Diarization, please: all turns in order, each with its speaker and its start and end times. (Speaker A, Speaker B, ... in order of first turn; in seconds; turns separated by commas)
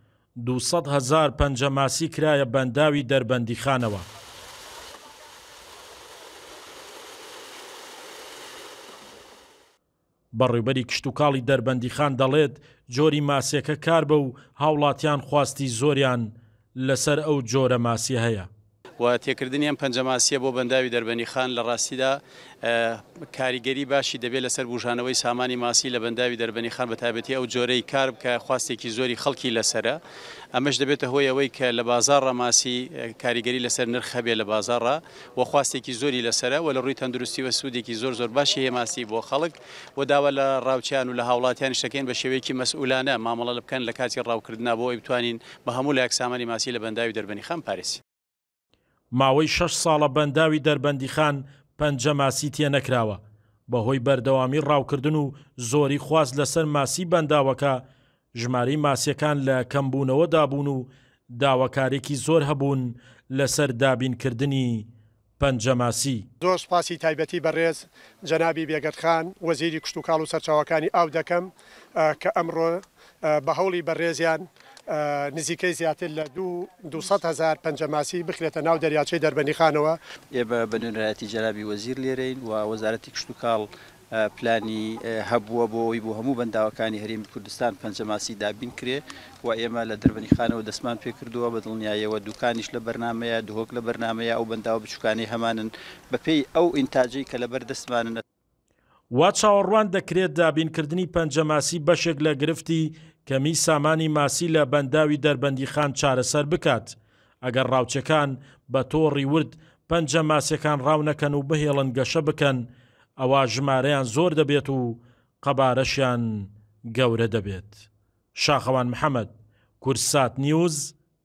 Speaker A: 0.4-4.1, Speaker A: 10.3-18.5, Speaker B: 19.0-30.0, Speaker B: 30.5-48.0, Speaker A: 49.1-57.8, Speaker A: 58.4-64.9, Speaker A: 65.4-66.3, Speaker C: 66.4-80.0, Speaker D: 80.3-98.2, Speaker A: 99.1-117.8, Speaker A: 118.3-120.9